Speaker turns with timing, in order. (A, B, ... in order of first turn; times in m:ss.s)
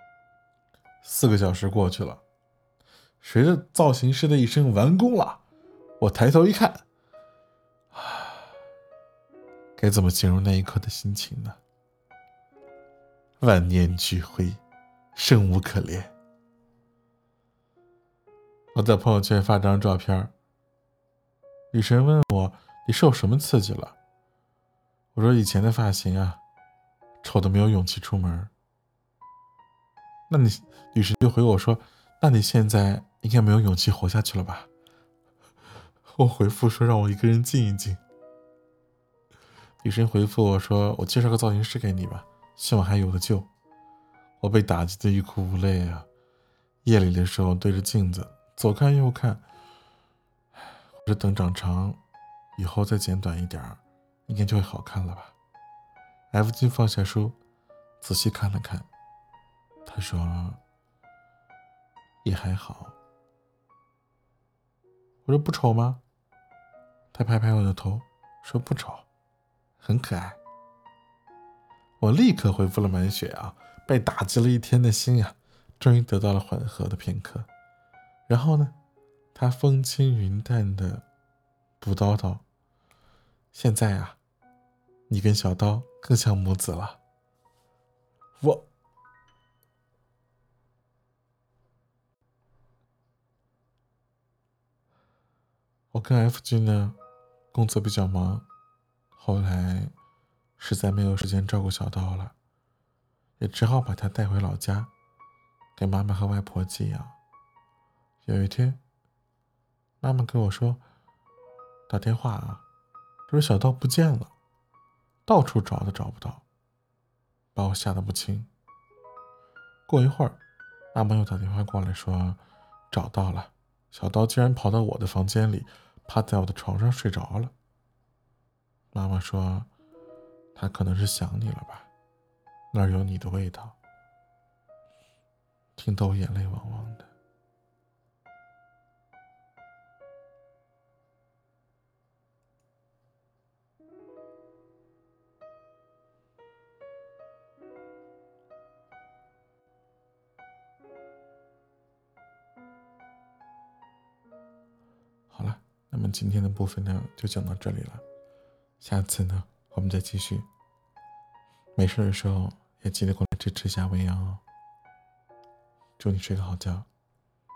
0:01.0-0:02.2 A
0:03.2-0:05.4 A
0:06.0-0:06.8 A
0:07.9-0:08.3 A
0:09.8-0:11.6 A
0:13.4-0:14.6 A
0:15.1-0:16.1 A
0:18.7-0:20.3 A
0:21.7-0:24.0 A
0:25.1-0:26.4 A
0:27.2-0:28.5 A
0:30.3-0:34.7 A
0:36.0-0:38.0 A
0:39.8-0:43.5 A
0:44.4-0:46.1 A
0:46.8-0:49.4 A
0:51.0-0:52.0 A
0:52.6-0:55.3 A
0:56.3-0:57.4 A
0:58.0-0:58.9 A
0:59.8-1:00.6 A
1:02.2-1:03.0 A
1:05.2-1:06.0 A
1:07.1-1:09.0 A
1:09.8-1:10.4 A
1:12.0-1:17.5 A
1:18.3-1:18.7 A
1:19.3-1:21.0 A
1:21.8-1:22.4 A
1:23.5-1:24.2 A
1:25.1-1:27.0 A
1:28.4-1:28.7 A
1:35.9-1:37.0 A
1:37.5-1:38.4 A
1:39.1-1:39.9 A
1:40.6-1:42.3 A
1:43.4-1:44.9 A
1:45.8-1:47.2 A
1:48.2-1:48.8 A
1:50.0-1:50.8 A
1:51.9-1:52.6 A
1:53.3-1:54.3 A
1:55.2-1:56.4 A
1:57.5-1:58.5 A
1:59.9-2:00.4 A
2:00.9-2:02.4 A
2:02.9-2:07.5 A
2:08.9-2:09.7 A
2:10.5-2:11.9 A
2:12.7-2:13.8 A
2:15.8-2:17.1 A
2:35.3-2:38.0 A
2:38.8-2:40.5 A
2:41.8-2:44.4 A
2:46.0-2:46.9 A